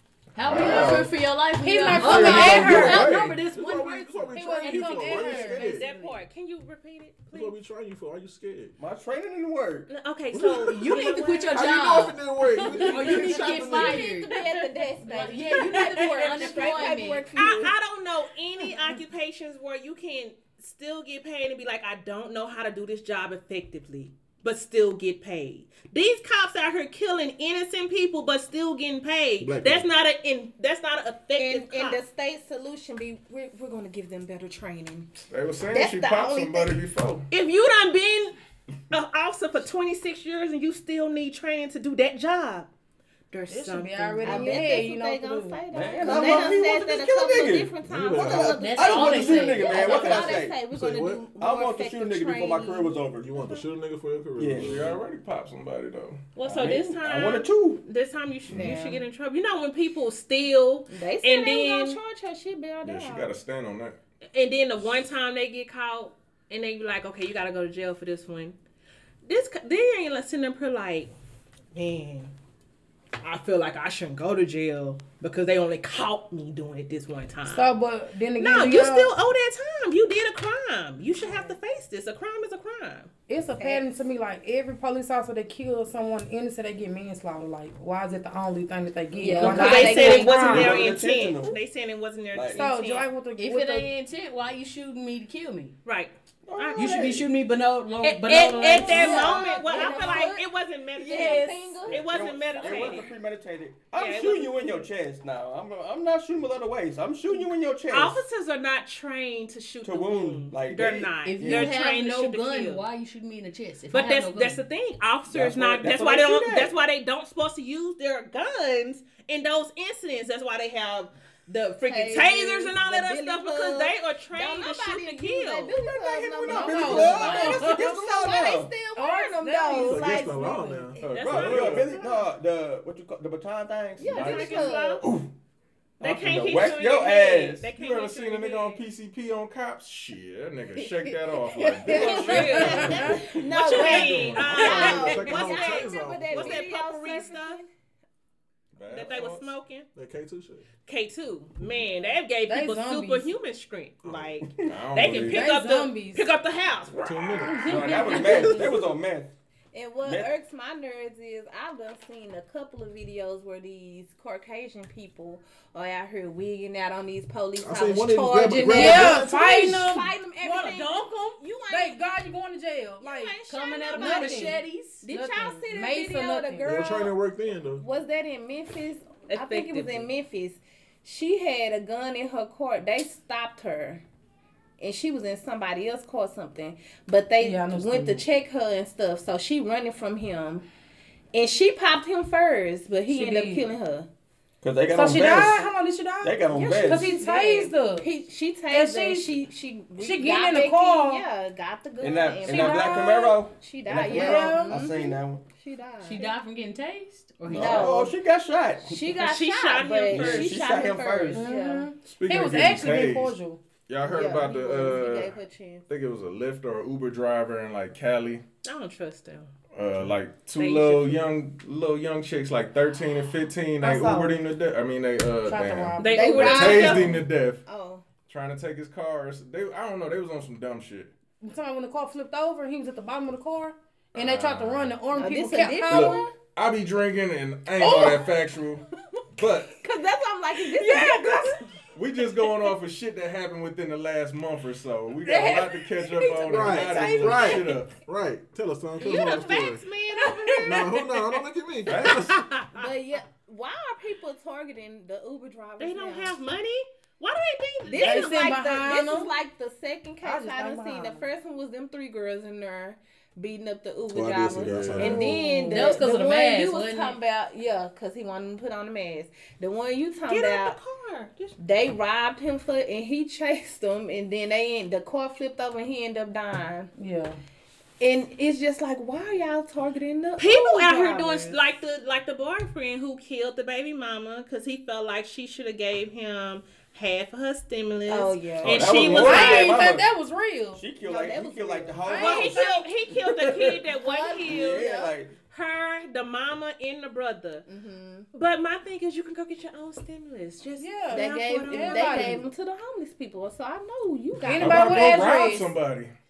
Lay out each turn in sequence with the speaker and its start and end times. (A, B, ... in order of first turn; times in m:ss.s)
0:00.3-0:05.9 A
0:00.4-0:01.2 B
0:00.5-0:01.0 C
0:01.6-0:03.2 D
0:01.9-0:03.4 B
0:02.7-0:05.9 C
0:04.3-0:05.8 D
0:05.6-0:07.6 E
0:07.3-0:08.8 C
0:08.8-0:09.9 F
0:09.9-0:11.8 E
0:10.3-0:14.1 C
0:10.6-0:12.2 A
0:12.8-0:17.3 A
0:13.0-0:17.8 G
0:16.2-0:32.0 E
0:29.4-0:29.9 C
0:31.4-0:35.1 G
0:35.3-0:37.3 B
0:35.7-0:36.8 G
0:37.3-0:38.4 E
0:38.9-0:42.7 E
0:43.3-0:44.6 E
0:43.5-0:45.6 D
0:44.2-0:53.7 G
0:45.7-0:50.6 F
0:47.8-0:48.6 C
0:48.6-0:50.0 A
0:50.6-0:51.3 C
0:51.4-0:53.3 F
0:53.2-0:55.0 C
0:54.4-0:54.8 F
0:54.6-0:56.2 B
0:56.4-1:02.0 E
0:56.4-0:57.8 F
0:58.5-0:59.0 G
1:00.9-1:03.3 G
1:02.8-1:04.0 B
1:04.3-1:08.6 E
1:09.2-1:11.1 E
1:11.7-1:12.3 E
1:13.2-1:17.7 E
1:17.5-1:19.1 D
1:18.4-1:23.1 E
1:21.2-1:21.6 G
1:23.3-1:30.8 D
1:23.6-1:23.8 G
1:29.2-1:30.9 G
1:29.3-1:33.1 E
1:30.3-1:31.6 F
1:32.3-1:32.6 F
1:32.5-1:33.9 D
1:33.4-1:35.7 A
1:35.8-1:37.1 E
1:36.4-1:37.3 F
1:36.8-1:39.5 A
1:38.0-1:43.1 E
1:38.4-1:43.1 G
1:39.7-1:40.2 D
1:41.1-1:41.6 A
1:41.9-1:48.2 F
1:44.0-1:44.8 E
1:47.9-1:52.8 E
1:49.8-1:51.8 F
1:51.2-1:54.6 A
1:53.9-2:05.8 E
1:55.3-1:56.7 F
2:01.8-2:11.2 G
2:05.8-2:08.7 F
2:06.5-2:08.0 D
2:06.9-2:07.8 A
2:09.0-2:10.9 D
2:09.7-2:11.0 C
2:11.0-2:12.0 B
2:11.0-2:12.0 E
2:11.2-2:15.3 F
2:14.0-2:15.0 G
2:14.1-2:15.0 E
2:14.1-2:14.8 B
2:16.0-2:17.7 F
2:16.0-2:18.8 E
2:17.7-2:23.1 B
2:21.0-2:27.7 G
2:21.8-2:23.8 F
2:21.9-2:27.6 E
2:22.3-2:23.1 D
2:23.7-2:26.6 C
2:28.8-2:29.5 B
2:28.9-2:29.9 E
2:30.0-2:30.7 C
2:30.9-2:37.7 E
2:32.5-2:33.3 D
2:34.7-2:35.5 B
2:35.3-2:36.2 D
2:37.0-2:38.7 C
2:37.5-2:38.6 D
2:37.6-2:39.3 F
2:39.7-2:52.0 G
2:40.0-2:40.3 F
2:47.6-2:49.8 C
2:48.5-2:53.4 D
2:53.0-2:57.2 G
2:53.5-2:55.1 A
2:53.9-2:57.0 D
2:56.6-2:57.8 C
2:57.8-3:04.0 G
2:59.3-3:00.1 E
3:04.8-3:10.7 G
3:07.4-3:08.2 D
3:11.3-3:14.1 G
3:13.1-3:13.7 D
3:14.6-3:15.7 F
3:14.9-3:18.1 D
3:16.2-3:17.2 F
3:16.5-3:26.3 G
3:18.7-3:19.4 D
3:20.0-3:21.2 D
3:22.0-3:25.4 F
3:22.5-3:23.3 D
3:24.1-3:24.8 D
3:26.0-3:27.9 A
3:27.5-3:29.1 F
3:27.5-3:28.1 G
3:28.9-3:31.9 G
3:29.2-3:30.6 E
3:30.1-3:31.5 F
3:31.3-3:33.6 D
3:32.0-3:33.4 B
3:33.9-3:35.4 B
3:34.0-3:35.8 G
3:35.9-3:38.4 B
3:38.6-3:39.5 E
3:39.7-3:47.6 B
3:40.6-3:41.3 E
3:43.8-3:44.3 D
3:45.5-3:47.0 D
3:46.0-3:47.2 E
3:46.1-3:48.0 G
3:48.3-3:51.1 B
3:51.4-3:56.3 D
3:54.2-3:55.0 B
3:55.2-3:56.3 G
3:55.9-3:59.8 B
3:57.8-3:58.2 G
3:59.7-4:01.6 G
4:00.8-4:01.4 D
4:01.9-4:07.9 B
4:05.2-4:07.8 G
4:06.4-4:09.8 C
4:09.0-4:11.0 E
4:10.6-4:12.4 C
4:11.9-4:12.3 B
4:12.1-4:12.8 E
4:12.7-4:16.3 G
4:15.8-4:18.6 E
4:17.9-4:30.8 G
4:18.0-4:19.3 D
4:20.2-4:21.2 D
4:24.1-4:25.4 C
4:25.0-4:25.9 D
4:25.5-4:27.2 A
4:30.3-4:31.6 E
4:31.6-4:36.9 G
4:37.0-4:37.4 D
4:38.0-4:41.6 G
4:40.4-4:49.8 E
4:48.1-4:49.7 G
4:48.6-4:49.3 B
4:48.6-4:50.1 F
4:49.2-4:50.8 D
4:50.8-4:52.7 F
4:51.0-4:52.9 G
4:52.0-4:52.9 D
4:52.2-4:54.9 E
4:53.9-4:55.2 G
4:54.4-4:55.3 F
4:55.5-4:57.6 E
4:57.7-4:58.3 G
4:58.3-5:02.4 E
5:00.8-5:02.5 D
5:01.1-5:05.4 G
5:04.4-5:05.7 D
5:04.6-5:06.1 B